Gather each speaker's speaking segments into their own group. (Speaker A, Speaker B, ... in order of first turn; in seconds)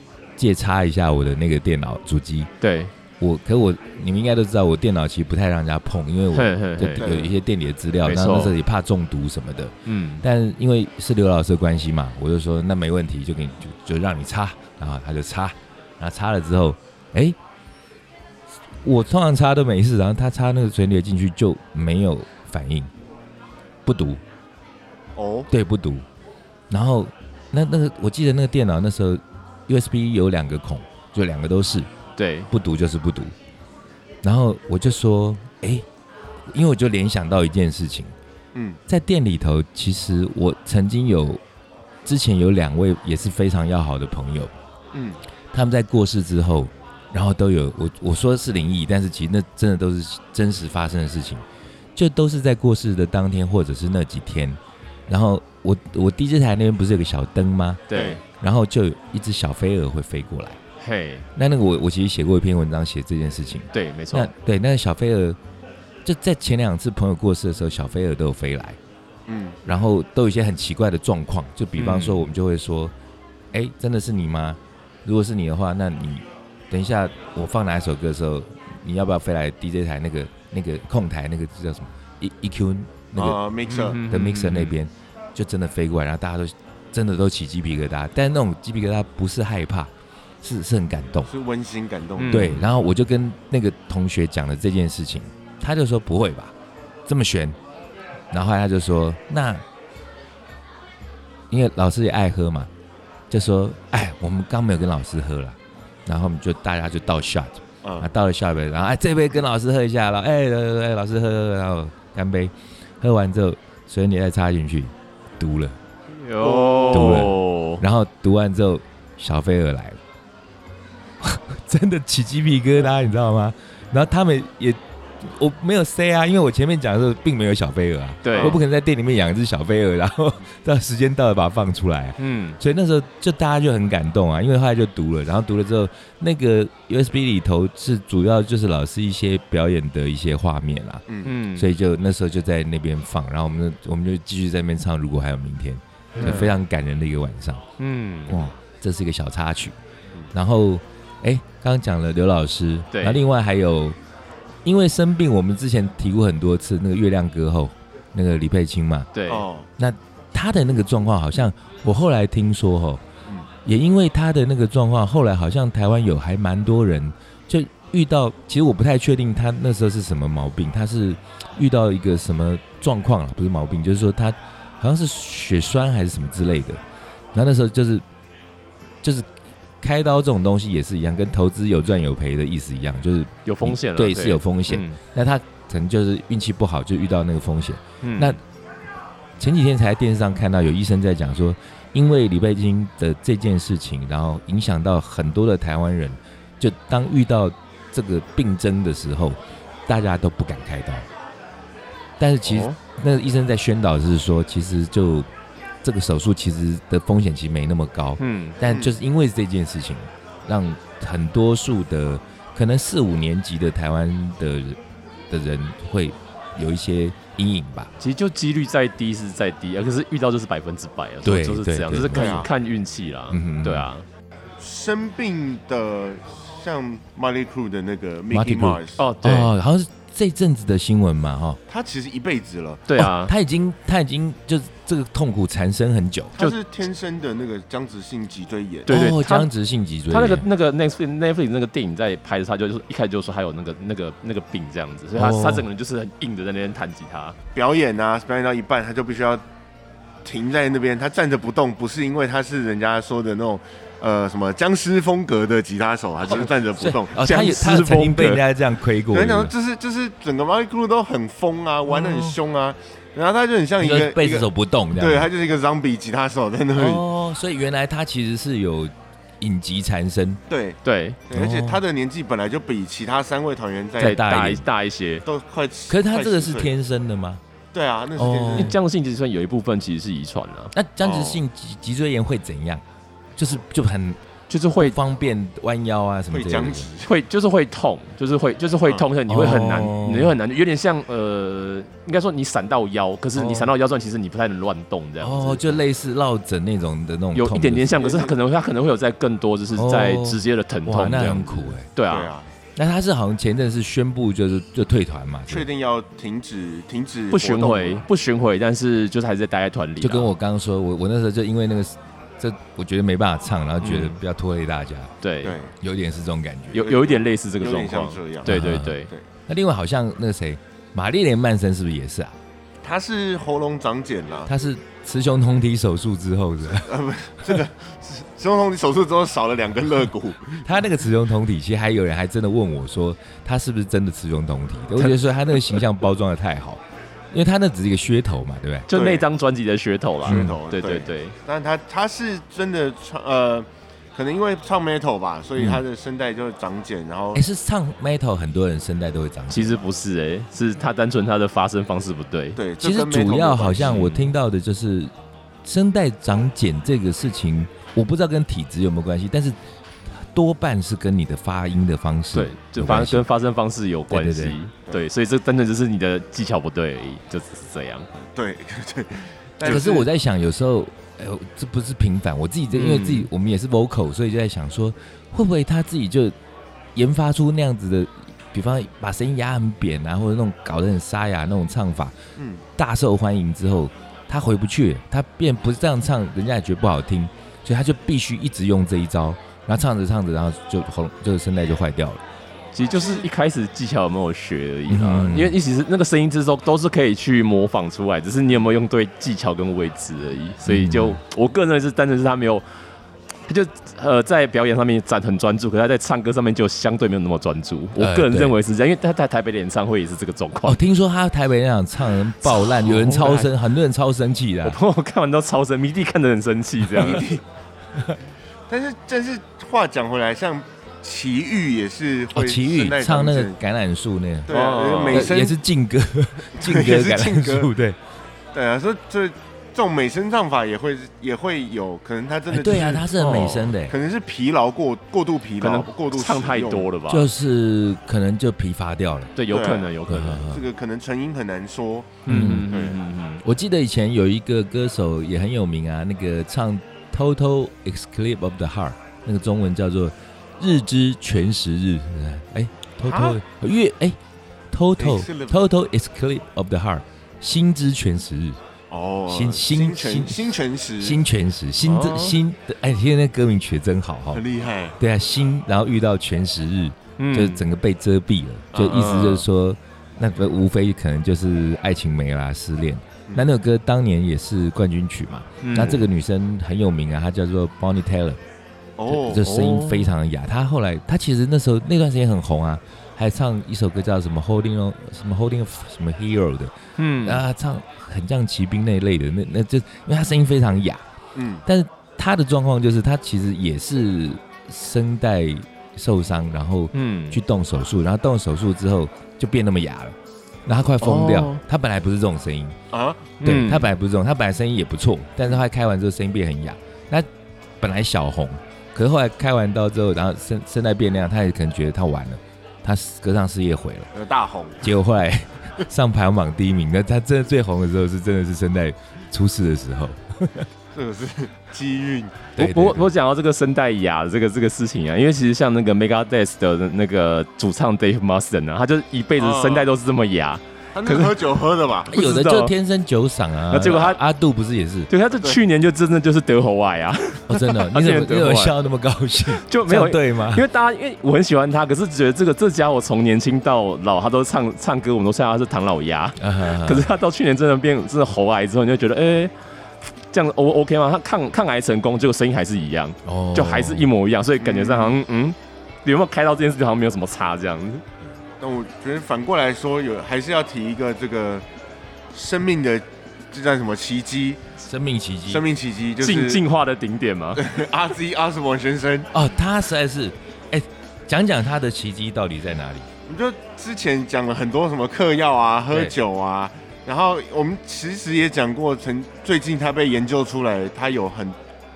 Speaker A: 0.4-2.5, 3.2-17.4, 18.8-22.9, 23.8-24.2, 25.5-26.0, 26.7-31.9, 32.5-33.3, 34.2-35.9, 36.5-38.1, 38.9-41.4, 42.0-44.5, 45.5-51.4, 51.9-60.6, 61.3-65.4, 66.0-68.8, 69.7-72.9, 73.5-83.4, 84.0-91.3, 92.3-96.5, 97.1-97.6, 98.3-99.6, 101.5-102.7, 103.3-115.8, 116.9-120.0, 121.2-147.6, 148.3-149.7, 150.3-154.0, 154.6-159.1, 159.8-163.0, 163.6-176.8, 177.3-178.0, 179.8-188.4, 189.4-201.1, 202.2-205.3, 205.8-217.9, 221.2-222.4, 223.3-223.9, 228.3-231.6, 232.9-236.3, 238.9-240.4, 245.2-245.7, 256.8-259.5, 261.9-262.4, 263.8-265.3, 266.7-270.4, 271.3-271.8, 274.0-274.7, 275.9-277.4, 278.1-278.8, 280.7-282.8, 283.4-284.2, 284.8-286.9, 289.3-290.4, 293.3-293.7, 295.2-298.0, 299.7-301.9, 302.8-305.7, 310.0-315.1, 315.8-316.9, 318.4-322.4, 324.5-326.9, 330.6-338.9, 340.2-340.6, 347.3-349.8, 352.8-355.1, 355.6-359.6, 360.1-363.2, 364.1-364.6, 369.6-376.3, 376.9-382.1, 382.8-392.2, 394.9-395.6, 400.6-401.2, 408.0-408.6, 410.6-414.8, 422.3-424.5, 425.1-428.0, 432.5-433.9, 437.1-439.3, 440.1-440.6, 442.3-442.7, 443.4-454.2, 454.7-458.6, 459.3-464.4, 465.0-478.4, 479.1-491.0, 491.6-502.8, 503.4-507.3, 507.8-514.1, 514.8-520.7, 522.6-523.1, 532.1-535.1, 537.5-540.6, 546.4-547.1, 553.2-554.0, 564.8-565.6, 569.3-573.1
Speaker B: 2.6-2.9, 6.3-7.1, 8.0-8.5, 9.8-10.2, 32.2-32.5, 57.9-58.2, 60.8-61.2, 63.7-64.3, 71.8-72.3, 83.7-84.8, 92.2-92.7, 116.1-117.8, 128.2-128.6, 132.2-132.6, 141.2-141.7, 146.2-146.5, 147.8-148.4, 152.9-153.2, 159.1-159.4, 183.4-185.0, 188.0-188.4, 202.4-202.7, 208.2-208.6, 218.0-224.0, 229.0-229.5, 232.9-233.3, 238.9-239.5, 240.1-247.4, 257.2-258.4, 270.8-271.2, 274.0-275.2, 278.5-280.7, 284.5-285.0, 287.1-295.8, 297.3-302.3, 307.3-310.3, 313.8-314.2, 315.2-315.6, 316.7-319.1, 338.9-341.3, 349.5-352.6, 353.8-354.3, 362.3-368.1, 372.7-373.3, 392.7-402.6, 403.5-410.8, 412.5-413.5, 414.6-417.3, 424.5-425.3, 433.2-433.7, 435.6-437.3, 439.4-440.5, 442.2-443.4, 461.8-462.4, 467.2-467.6, 468.8-469.4, 475.6-476.1, 479.4-480.1, 487.0-487.4, 496.9-497.4, 501.0-501.6, 503.4-503.9, 522.6-531.4, 532.1-532.7, 533.7-534.2, 535.1-538.8, 539.5-549.5, 550.3-558.0, 566.2-567.6
Speaker C: 7.0-7.3, 25.1-25.5, 38.5-38.8, 44.9-45.2, 57.9-58.2, 69.3-69.6, 83.2-84.0, 91.2-92.6, 107.8-108.1, 116.4-117.3, 141.1-141.3, 159.3-159.7, 208.6-208.9, 222.1-222.5, 224.6-229.1, 231.7-232.8, 236.3-239.0, 247.5-249.4, 250.2-257.8, 259.1-267.0, 270.5-274.2, 275.2-276.7, 277.7-278.8, 281.0-281.4, 286.3-287.1, 297.9-298.3, 302.1-302.5, 305.5-308.0, 315.4-315.7, 316.8-319.2, 322.8-324.5, 326.7-330.7, 338.9-339.2, 340.2-347.4, 352.6-354.0, 368.2-370.1, 382.4-382.6, 416.9-417.4, 418.7-423.6, 424.5-425.6, 426.5-427.7, 428.5-433.1, 433.8-436.9, 439.5-443.0, 453.0-453.4, 455.0-455.6, 458.9-461.2, 464.3-465.0, 468.7-469.2, 479.0-479.5, 491.3-491.6, 502.9-503.4, 514.1-514.9, 520.9-522.4, 529.4-529.9, 530.9-532.1, 554.6-555.2, 558.6-561.6, 562.3-564.6, 565.5-566.6, 567.5-569.3, 573.2-581.5